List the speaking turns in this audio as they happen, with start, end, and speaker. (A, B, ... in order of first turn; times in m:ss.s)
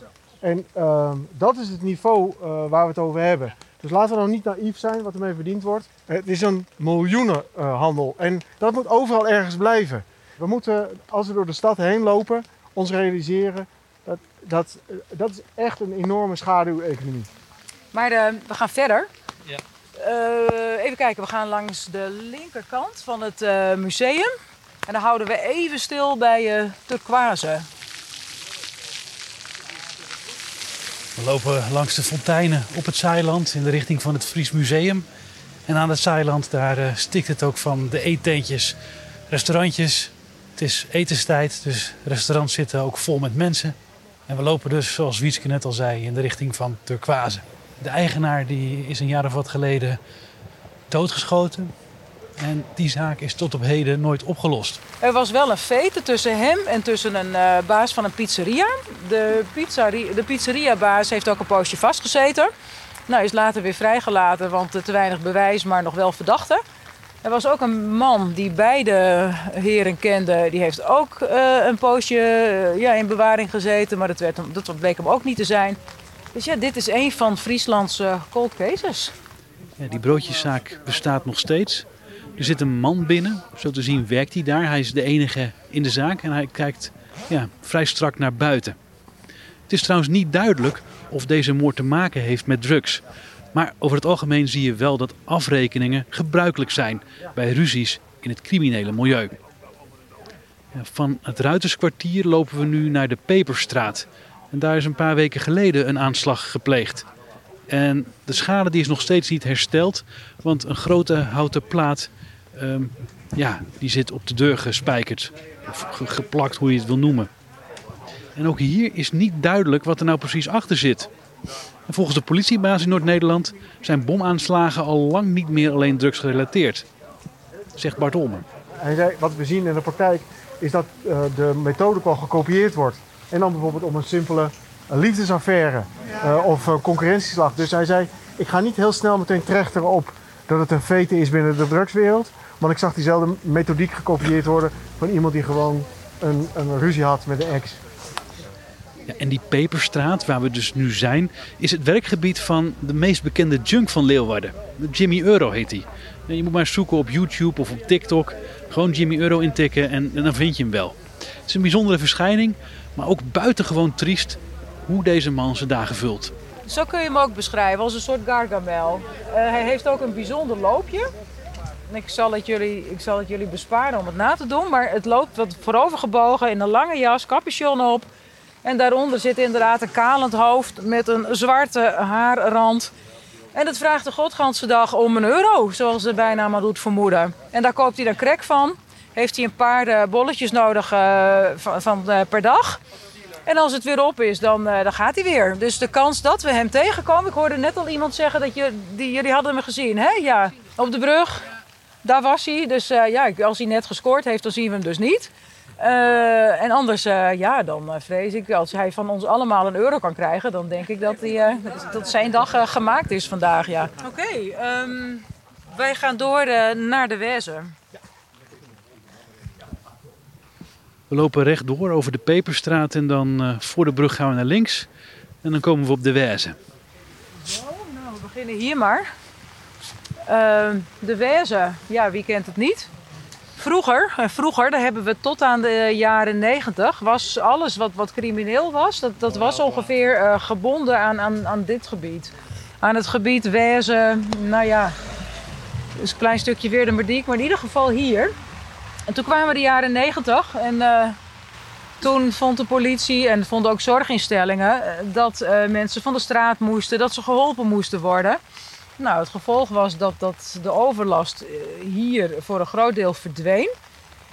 0:00.4-0:17.3 A
0:17.9-0:19.1 B
0:20.0-0:24.3 B
0:24.9-0:27.7 B
0:31.2-0:35.0 C
0:35.7-0:38.8 C
0:39.3-0:43.7 C
0:44.3-0:50.0 C
0:50.9-0:51.7 C
0:52.4-0:54.8 C
0:55.0-1:02.5 B
1:03.1-1:06.6 B
1:07.2-1:15.8 B
1:16.3-1:19.1 B
1:19.8-1:21.8 C
1:22.4-1:28.8 C
1:29.7-1:33.0 C
1:33.5-1:39.3 C
1:40.7-1:47.0 C
1:47.7-1:57.3 C
1:58.4-2:01.1 C
2:01.9-2:06.8 C
2:07.8-2:08.4 C
2:08.8-2:27.8 A
2:29.1-2:46.3 C
2:46.6-2:51.1 B
2:51.9-2:58.1 B
2:58.6-3:02.9 B
3:03.5-3:12.8 B
3:13.4-3:21.4 B
3:22.0-3:37.7 B
3:41.1-3:44.9 C
3:45.4-3:46.6 C
3:47.4-3:49.1 B
3:50.2-3:52.9 B
3:53.6-4:05.0 B
4:06.0-4:08.3 B
4:09.1-4:11.2 B
4:12.0-4:18.4 B
4:19.0-4:23.7 B